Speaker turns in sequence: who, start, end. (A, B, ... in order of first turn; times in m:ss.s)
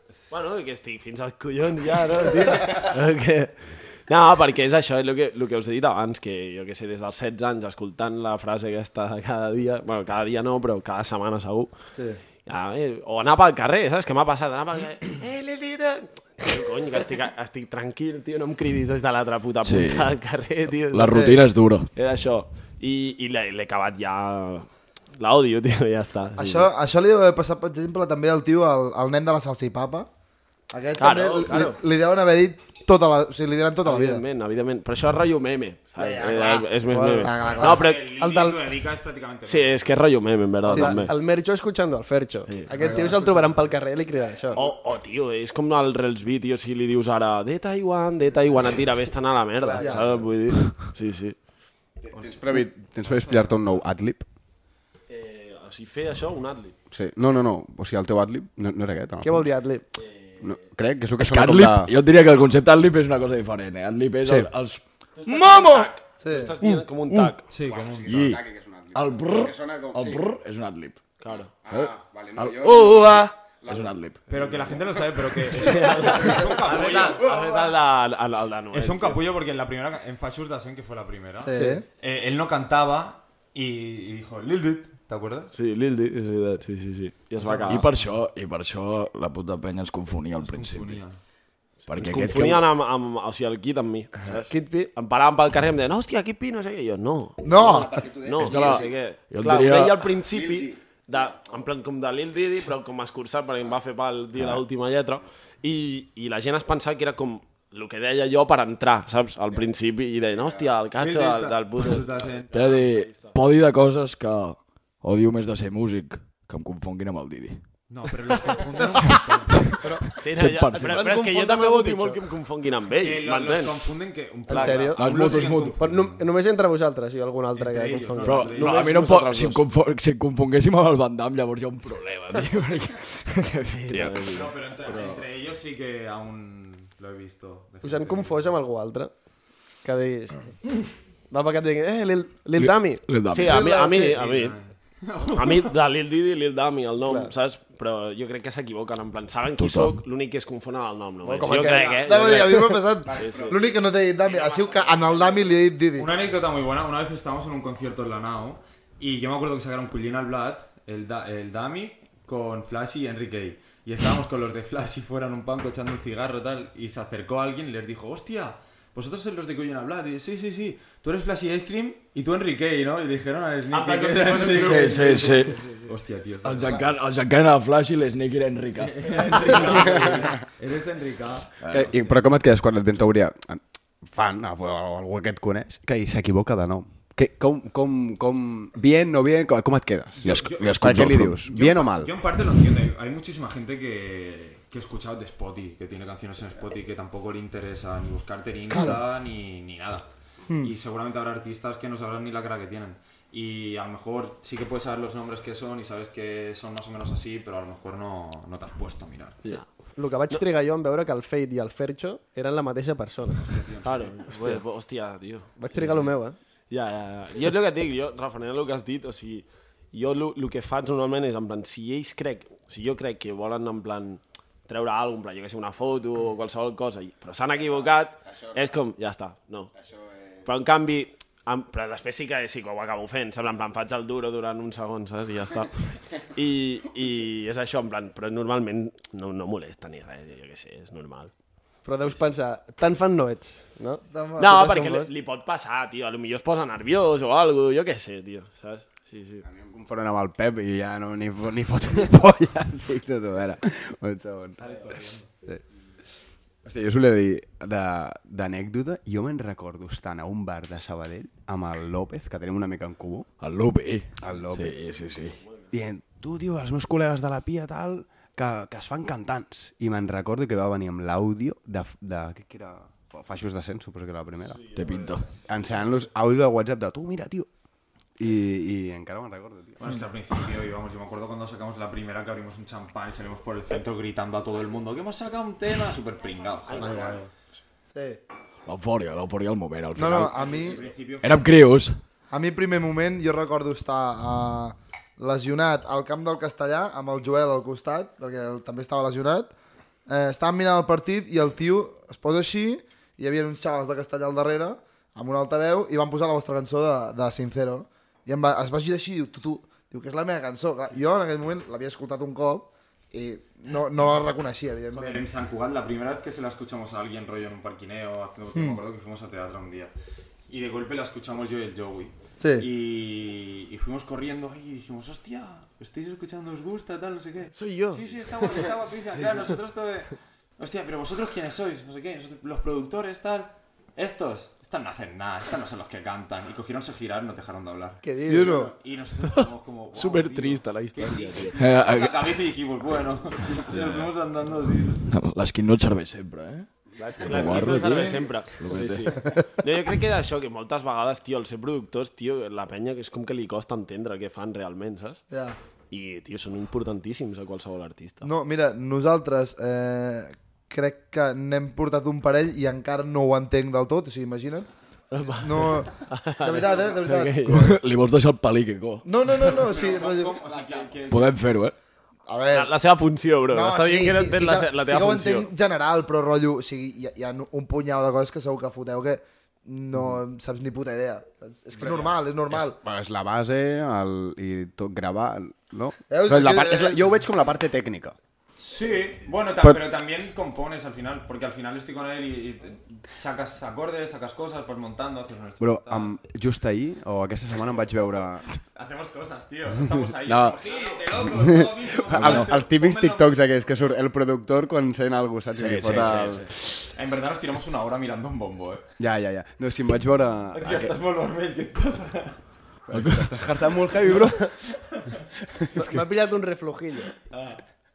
0:00.3-0:11.7 A
0:12.4-0:21.3 A
0:19.6-0:20.1 B
0:20.9-0:21.9 B
0:21.1-0:21.4 C
0:21.9-0:26.7 A
0:26.4-0:30.1 C
0:30.7-0:34.2 C
0:31.0-0:31.8 A
0:33.8-0:38.0 A
0:36.0-0:37.8 C
0:36.9-0:38.6 D
0:37.4-0:39.9 E
0:39.4-0:41.1 A
0:40.7-0:44.6 D
0:40.7-0:41.0 C
0:42.5-0:43.7 A
0:42.8-0:43.1 C
0:44.2-0:51.4 A
0:49.6-0:50.2 D
0:49.8-0:50.1 C
0:52.0-0:54.2 F
0:53.0-0:53.8 E
0:55.1-0:56.7 A
0:56.9-0:59.5 F
0:59.2-0:59.8 D
0:59.9-1:00.6 A
1:00.4-1:01.9 F
1:01.2-1:05.9 B
1:04.2-1:04.5 F
1:05.1-1:07.5 A
1:06.2-1:06.5 C
1:06.6-1:07.3 B
1:07.5-1:08.2 E
1:07.6-1:10.2 F
1:08.0-1:08.4 B
1:08.9-1:11.1 B
1:11.2-1:11.5 A
1:11.6-1:13.9 F
1:11.7-1:14.2 B
1:14.3-1:17.3 E
1:14.3-1:14.8 A
1:15.5-1:19.2 A
1:16.4-1:17.7 F
1:18.7-1:25.5 E
1:21.4-1:21.8 C
1:25.5-1:27.9 A
1:27.4-1:28.1 E
1:27.6-1:31.0 B
1:30.4-1:31.2 E
1:31.8-1:37.4 A
1:31.9-1:32.6 B
1:34.5-1:34.9 D
1:37.4-1:38.1 C
1:37.4-1:38.9 F
1:38.1-1:53.4 A
1:38.4-1:40.1 B
1:40.2-1:41.6 F
1:50.3-1:50.7 F
1:51.0-1:52.8 E
1:52.5-1:57.6 B
1:57.9-1:59.7 E
1:58.9-2:01.1 B
1:59.8-2:00.1 D
2:00.2-2:03.9 A
2:00.6-2:02.2 D
2:03.0-2:06.2 E
2:04.5-2:05.0 A
2:04.5-2:08.6 D
2:04.9-2:05.8 B
2:07.5-2:09.0 E
2:08.2-2:14.3 B
2:08.6-2:09.6 A
2:13.6-2:15.2 A
2:14.3-2:18.6 E
2:17.8-2:19.1 D
2:19.8-2:20.6 D
2:21.3-2:23.0 D
2:22.6-2:23.6 B
2:23.3-2:24.6 A
2:23.5-2:24.1 C
2:24.0-2:25.7 E
2:25.3-2:33.7 A
2:27.0-2:27.3 D
2:29.6-2:30.0 B
2:31.2-2:32.2 D
2:31.6-2:32.0 E
2:32.0-2:36.1 C
2:33.0-2:33.8 F
2:34.2-2:35.5 A
2:36.0-2:55.1 E
2:53.7-2:55.8 A
2:54.2-2:55.3 D
2:54.5-2:55.6 B
2:55.8-2:56.8 E
2:56.4-2:59.9 B
2:58.8-3:02.2 E
2:59.7-3:00.3 F
3:01.6-3:01.9 B
3:01.7-3:12.1 F
3:10.2-3:20.1 E
3:10.2-3:11.4 B
3:18.7-3:19.0 C
3:20.6-3:29.5 E
3:29.5-3:33.4 D
3:33.3-3:34.3 E
3:33.8-3:36.1 A
3:35.6-3:36.4 D
3:36.7-3:49.7 A
3:47.6-3:48.8 F
3:49.7-3:50.5 F
3:50.4-4:01.3 A
4:01.8-4:05.1 D
4:04.1-4:04.6 C
4:04.4-4:09.4 A
4:09.4-4:14.6 F
4:14.6-4:15.3 E
4:14.6-4:14.9 A
4:16.6-4:23.3 F
4:23.4-4:25.4 B
4:24.2-4:24.8 F
4:25.4-4:25.7 A
4:25.7-4:34.6 F
4:34.4-4:35.2 A
4:34.7-4:35.2 B
4:35.5-4:37.5 F
4:38.2-4:39.8 F
4:39.8-4:47.1 E
4:46.7-4:47.2 A
4:46.7-4:47.2 C
4:47.9-4:48.2 C
4:48.6-4:50.3 B
4:50.0-4:50.8 C
4:50.3-4:51.5 E
4:51.2-4:52.0 B
4:52.3-4:59.5 C
5:00.1-5:15.2 C
5:14.9-5:19.9 E
5:18.5-5:18.8 C
5:20.5-5:45.0 E
5:22.4-5:22.6 C
5:27.6-5:28.6 A
5:38.0-5:38.6 D
5:38.2-5:38.7 C
5:38.4-5:38.7 F
5:39.9-5:41.6 A
5:41.6-5:42.3 B
5:45.1-5:46.7 B
5:47.0-5:55.2 A
5:47.2-5:49.2 B
5:55.3-5:55.6 C
5:55.9-5:58.3 A
5:58.2-6:04.7 C
6:05.1-6:07.8 A
6:05.4-6:07.4 C
6:07.4-6:09.0 B
6:09.0-6:10.4 C
6:09.6-6:11.4 E
6:09.7-6:11.0 F
6:11.1-6:11.7 B
6:12.3-6:12.7 C
6:12.5-6:15.5 A
6:13.5-6:22.8 C
6:19.9-6:20.2 F
6:21.8-6:28.2 F
6:26.1-6:27.2 C
6:28.6-6:36.1 E
6:35.6-6:38.5 F
6:38.7-6:43.5 E
6:39.9-6:46.4 F
6:42.1-6:42.5 B
6:45.6-6:46.5 B
6:46.8-6:48.8 E
6:49.0-6:51.0 F
6:50.5-6:52.4 E
6:52.9-6:54.5 F
6:52.9-6:53.3 B
6:55.7-6:57.1 D
6:57.3-6:57.6 E